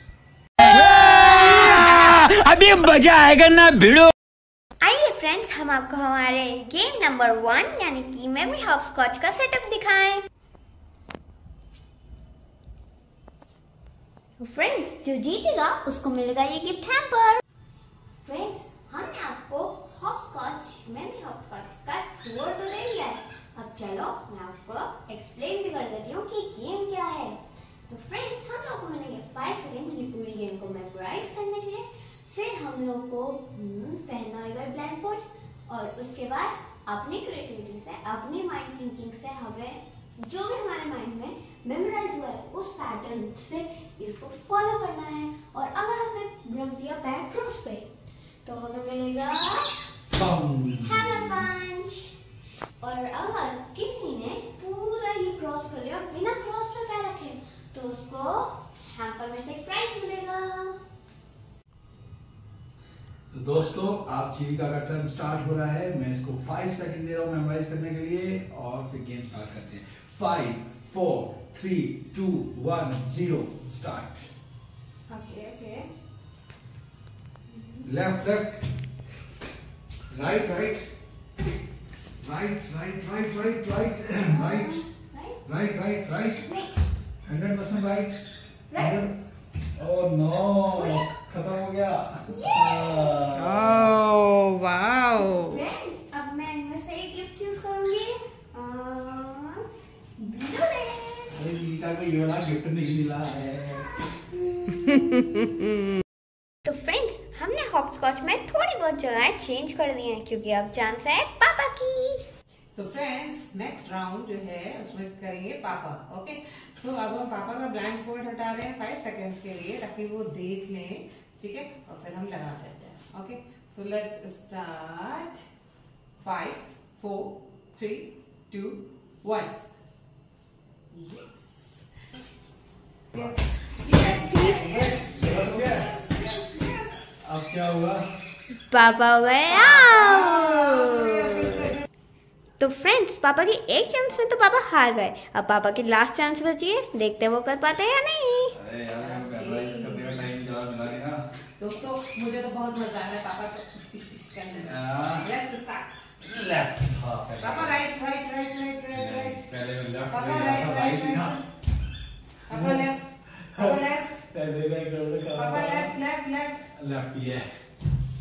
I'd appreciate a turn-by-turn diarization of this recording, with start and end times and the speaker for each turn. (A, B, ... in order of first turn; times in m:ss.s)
0:00.6-0:04.1 A
0:00.6-0:02.0 B
0:04.8-0:10.3 B
0:14.4-0:17.4 B
0:18.2-0:47.9 B
0:48.4-0:49.7 B
0:50.1-0:51.5 C
0:50.8-0:52.2 B
0:52.8-1:00.8 B
1:03.3-1:14.3 C
1:15.1-1:15.9 D
1:17.8-1:18.8 C
1:20.1-1:20.9 C
1:22.2-1:24.8 C
1:24.3-1:25.4 B
1:25.4-1:26.5 C
1:27.2-1:28.2 C
1:28.7-1:29.1 B
1:28.7-1:29.2 C
1:29.8-1:34.0 C
1:30.7-1:31.1 B
1:32.3-1:33.2 B
1:33.3-1:35.6 D
1:35.3-1:39.7 B
1:40.2-1:41.4 B
1:41.3-1:43.9 C
1:44.9-1:45.2 D
1:46.6-1:52.2 B
1:52.7-2:05.4 D
2:06.2-2:09.6 D
2:10.9-2:11.8 D
2:13.1-2:17.2 D
2:14.2-2:14.6 B
2:14.6-2:15.9 C
2:17.2-2:18.1 C
2:18.7-2:21.6 B
2:19.6-2:21.7 D
2:22.6-2:28.6 B
2:28.5-2:31.3 C
2:29.0-2:30.2 D
2:31.6-2:36.1 D
2:34.6-2:35.3 C
2:36.2-2:37.8 C
2:37.4-2:39.4 D
2:38.9-2:41.4 C
2:40.1-2:41.4 D
2:42.5-2:44.3 D
2:42.5-2:45.9 C
2:45.4-2:46.7 D
2:46.7-2:47.5 C